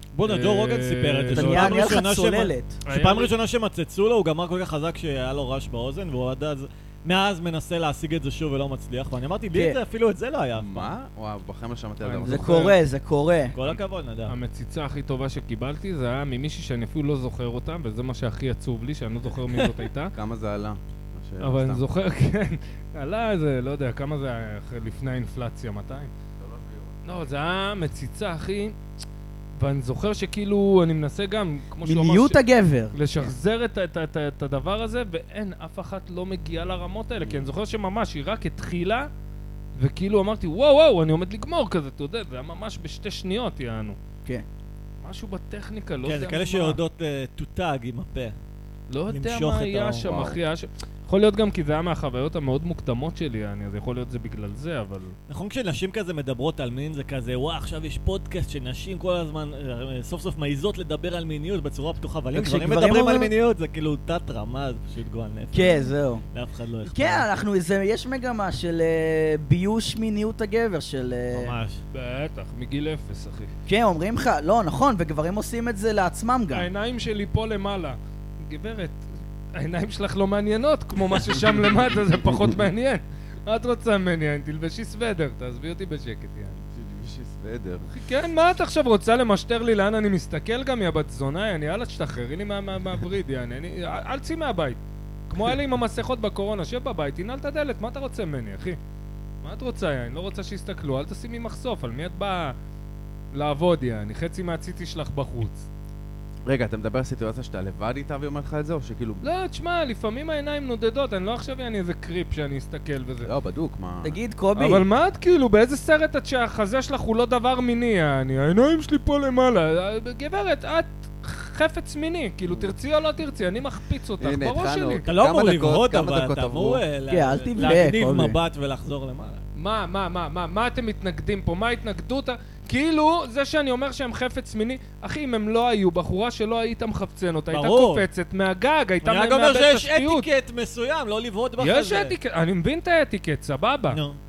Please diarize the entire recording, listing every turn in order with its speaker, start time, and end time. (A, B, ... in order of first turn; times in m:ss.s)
0:00.1-0:10.9 A
0:00.2-0:01.9 B
0:01.3-0:02.8 C
0:02.8-0:03.3 B
0:10.6-0:12.8 D
0:12.0-0:12.8 B
0:12.3-0:13.6 C
0:13.5-0:14.3 A
0:14.2-0:20.1 B
0:20.1-0:21.8 D
0:21.4-0:26.1 B
0:26.4-0:27.0 D
0:27.0-0:28.8 B
0:29.6-0:32.4 B
0:31.8-0:33.3 C
0:32.9-0:39.1 B
0:37.2-0:37.5 D
0:39.8-0:44.0 B
0:45.0-0:46.8 B
0:46.0-0:48.4 A
0:48.9-0:55.2 B
0:49.1-0:50.1 A
0:50.0-0:50.4 D
0:55.3-1:07.3 A
1:02.3-1:03.3 C
1:05.5-1:06.2 C
1:06.8-1:11.5 C
1:11.3-1:11.8 A
1:11.9-1:13.5 B
1:13.7-1:16.7 C
1:16.5-1:26.6 B
1:26.7-1:27.9 D
1:27.9-1:38.8 B
1:39.4-1:42.6 B
1:43.3-1:45.6 B
1:46.4-1:49.3 D
1:49.2-1:53.3 B
1:53.2-1:54.2 D
1:54.0-1:54.8 C
1:54.5-2:05.1 B
2:02.4-2:02.7 D
2:04.2-2:06.8 D
2:05.1-2:09.4 A
2:07.1-2:08.4 C
2:09.6-2:20.3 B
2:17.5-2:18.1 A
2:19.0-2:22.1 A
2:21.6-2:24.0 B
2:23.9-2:24.2 A